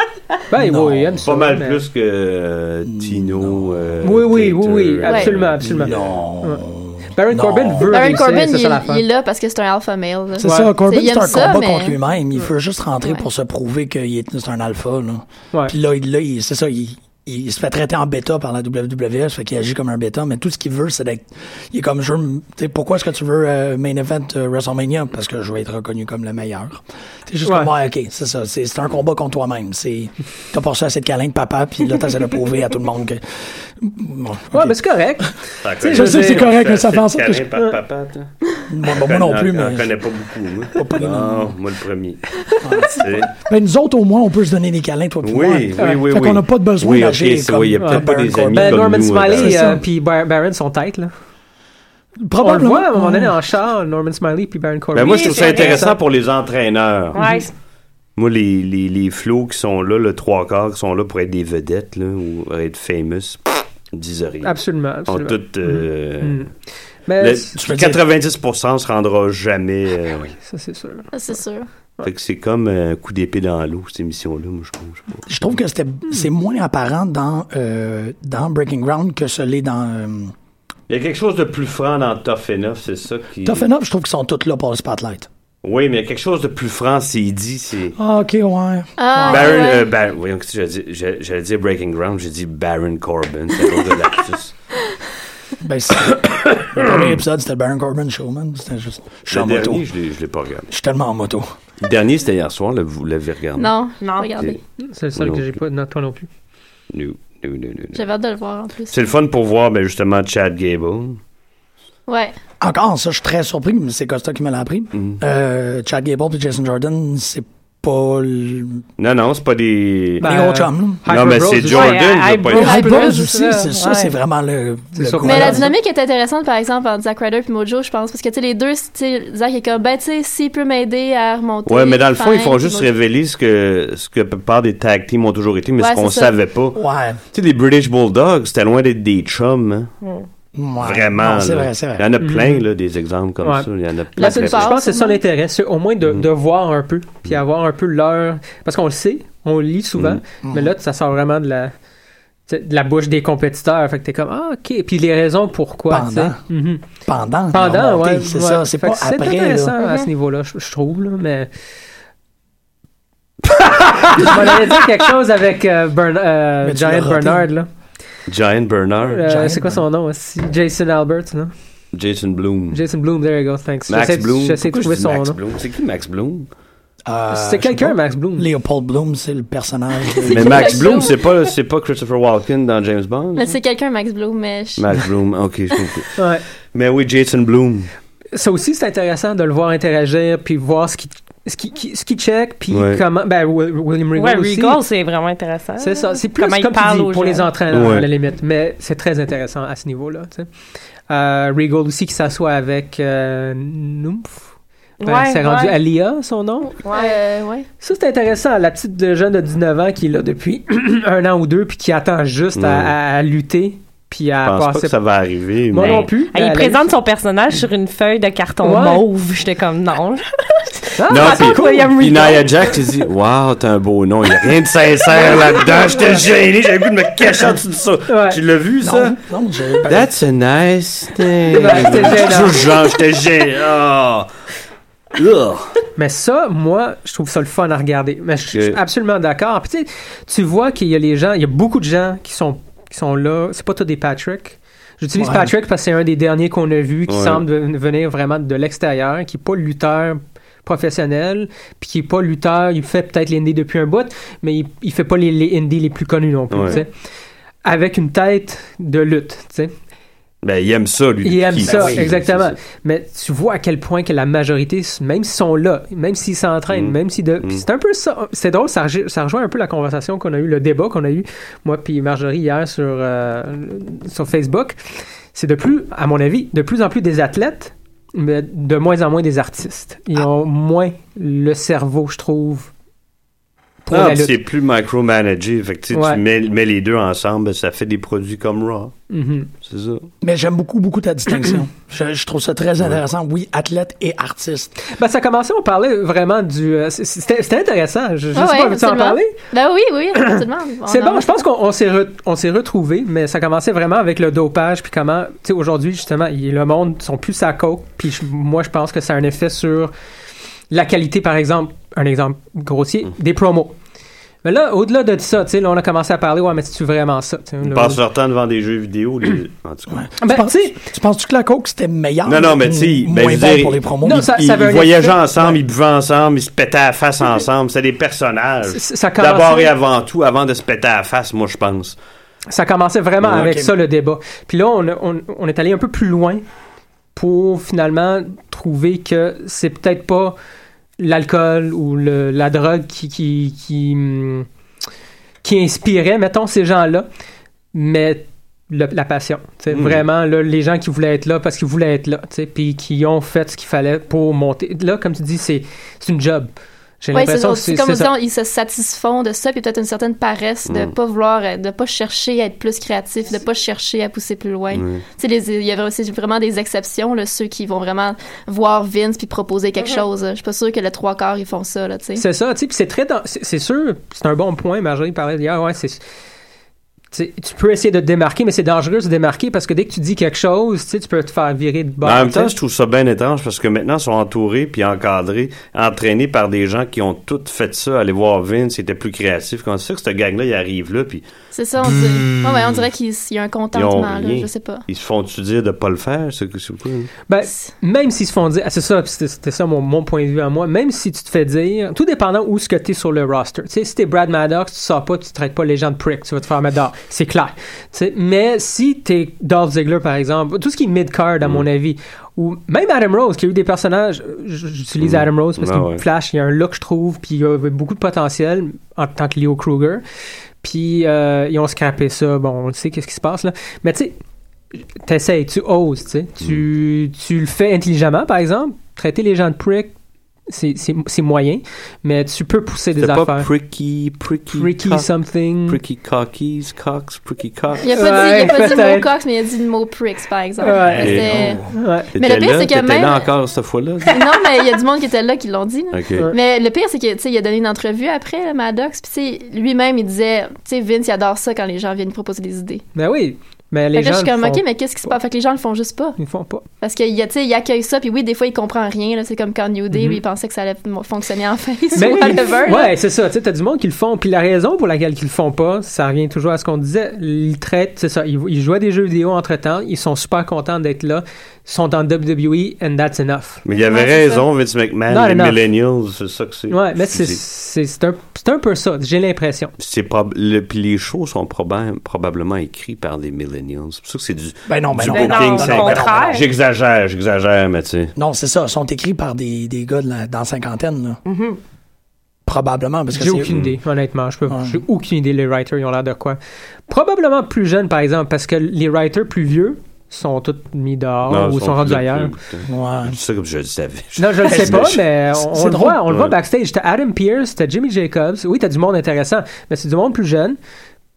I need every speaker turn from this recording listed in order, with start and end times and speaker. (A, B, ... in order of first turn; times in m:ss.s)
0:00.5-0:01.8 A
0:00.5-0:01.2 B
0:01.2-0:06.1 C
0:02.9-0:03.9 B
0:04.0-0:09.0 A
0:05.0-0:05.3 D
0:05.6-0:08.2 B
0:07.9-0:12.0 D
0:10.4-0:35.3 B
0:10.4-0:10.7 A
0:27.4-0:27.7 A
0:34.5-0:36.5 A
0:35.6-0:38.3 C
0:35.8-0:37.5 B
0:38.7-0:39.9 B
0:38.9-0:43.3 C
0:40.8-0:41.5 B
0:42.6-0:49.8 B
0:45.2-0:49.8 C
0:47.8-0:51.1 A
0:52.2-0:53.4 B
0:52.4-0:56.0 A
0:55.0-0:57.3 C
0:55.0-0:55.9 E
0:57.1-0:57.5 E
0:58.2-1:06.4 C
1:04.4-1:06.5 A
1:07.1-1:07.5 A
1:07.2-1:10.4 C
1:07.6-1:08.0 B
1:10.4-1:11.1 A
1:11.1-1:11.7 D
1:12.0-1:15.3 C
1:15.3-1:20.3 B
1:20.9-1:23.7 C
1:23.4-1:25.3 B
1:25.6-1:28.0 C
1:28.0-1:29.7 B
1:29.0-1:29.8 D
1:29.3-1:34.5 C
1:35.6-1:39.8 B
1:39.3-1:40.7 C
1:40.7-1:41.5 B
1:41.8-1:43.7 C
1:43.6-1:44.6 D
1:44.0-1:44.4 E
1:44.8-1:46.3 A
1:45.2-1:45.5 C
1:46.9-1:48.1 C
1:47.9-1:49.0 D
1:48.9-1:51.2 C
1:52.1-1:52.4 D
1:52.6-1:58.8 B
1:54.9-1:55.2 C
1:59.0-2:00.4 C
2:00.2-2:02.0 A
2:00.2-2:01.0 B
2:01.1-2:02.9 C
2:01.7-2:04.1 E
2:02.5-2:05.7 B
2:05.0-2:05.7 A
2:05.2-2:12.9 D
2:11.7-2:16.8 C
2:15.8-2:16.3 D
2:16.8-2:17.2 B
2:17.3-2:19.9 C
2:20.6-2:22.1 B
2:20.8-2:24.7 C
2:22.2-2:22.6 A
2:23.4-2:31.7 A
2:24.2-2:25.2 D
2:30.4-2:30.7 B
2:32.5-2:36.8 A
2:35.9-2:36.4 B
2:37.0-2:39.7 B
2:37.5-2:41.5 A
2:39.8-2:40.1 E
2:43.8-2:47.7 A
2:46.6-2:47.5 B
2:48.3-2:49.3 C
2:49.0-2:51.5 A
2:49.2-2:49.8 B
2:51.9-2:52.8 C
2:52.7-2:55.4 A
2:53.9-2:56.5 C
2:57.1-3:01.0 B
2:57.3-2:58.5 A
3:00.2-3:01.2 D
3:00.3-3:03.6 C
3:03.4-3:05.0 D
3:04.8-3:06.2 C
3:06.2-3:06.4 A
3:06.7-3:07.9 C
3:08.3-3:14.8 A
3:12.7-3:13.0 C
3:14.2-3:17.5 E
3:15.8-3:20.5 A
3:17.7-3:18.1 C
3:21.1-3:24.5 A
3:25.0-3:26.7 A
3:25.0-3:25.8 E
3:26.8-3:27.2 E
3:26.9-3:27.7 D
3:27.8-3:35.0 A
3:32.6-3:32.9 C
3:34.4-3:36.1 C
3:35.7-3:36.8 A
3:35.8-3:40.3 E
3:38.6-3:39.0 A
3:41.0-3:41.9 A
3:41.1-3:49.2 C
3:41.1-3:42.6 E
3:48.1-3:48.4 A
3:48.8-3:50.1 B
3:49.8-3:54.3 C
3:51.5-3:52.6 A
3:55.1-3:55.8 C
3:56.0-4:16.9 A
3:58.5-3:58.8 C
4:05.2-4:05.5 B
4:07.1-4:07.4 C
4:16.5-4:16.8 C
4:17.6-4:19.7 A
4:20.4-4:22.6 C
4:21.2-4:42.7 A
4:21.6-4:22.1 B
4:26.7-4:27.6 C
4:43.8-4:44.4 A
4:43.9-4:49.0 C
4:45.9-4:46.2 A
4:49.1-4:49.5 A
4:49.6-4:50.1 C
4:50.2-4:54.7 B
4:55.0-4:59.3 A
4:58.4-5:01.4 D
5:00.2-5:09.9 A
5:10.7-5:13.8 A
5:14.4-5:18.0 A
5:17.6-5:20.1 C
5:19.9-5:24.3 B
5:20.2-5:20.8 A
5:22.3-5:32.0 C
5:24.0-5:25.2 A
5:28.7-5:29.7 A
5:32.5-5:36.4 A
5:33.2-5:33.7 B
5:37.2-5:40.4 A
5:41.0-5:44.5 A
5:45.4-5:47.1 A
5:47.7-5:58.1 A
5:49.7-5:50.0 C
5:57.1-6:12.2 D
6:00.7-6:00.9 C
6:04.7-6:05.0 C
6:12.2-6:16.0 A
6:17.1-6:22.5 A
6:22.0-6:31.2 C
6:31.5-6:34.8 D
6:33.7-6:37.1 C
6:37.3-7:00.0 A
6:55.0-6:56.0 C
7:00.6-7:04.2 A
7:04.8-7:09.9 A
7:10.5-7:13.5 A
7:13.0-7:15.1 C
7:14.6-7:15.8 A
7:15.7-7:17.9 C
7:17.8-7:23.3 D
7:17.9-7:19.1 A
7:20.6-7:21.2 A
7:20.9-7:21.8 B
7:21.0-7:21.6 C
7:21.7-7:22.1 A
7:22.1-7:24.3 C
7:24.1-7:32.8 D
7:25.9-7:26.3 C
7:33.0-7:35.2 A
7:34.0-7:36.2 D
7:36.2-7:36.6 A
7:36.8-7:42.9 D
7:39.9-7:40.2 A
7:42.0-7:53.6 A
7:53.6-7:57.4 C
7:54.0-7:54.3 D
7:55.1-7:55.6 A
7:56.7-7:59.7 A
7:59.8-8:08.1 C
8:04.7-8:06.4 B
8:05.1-8:06.4 E
8:08.2-8:11.2 B
8:11.3-8:11.6 E
8:12.5-8:13.5 B
8:13.1-8:22.3 A
8:13.5-8:13.8 C
8:14.5-8:14.8 B
8:21.3-8:25.0 C
8:22.7-8:23.2 B
8:24.2-8:30.6 A
8:24.5-8:26.0 B
8:26.1-8:26.4 C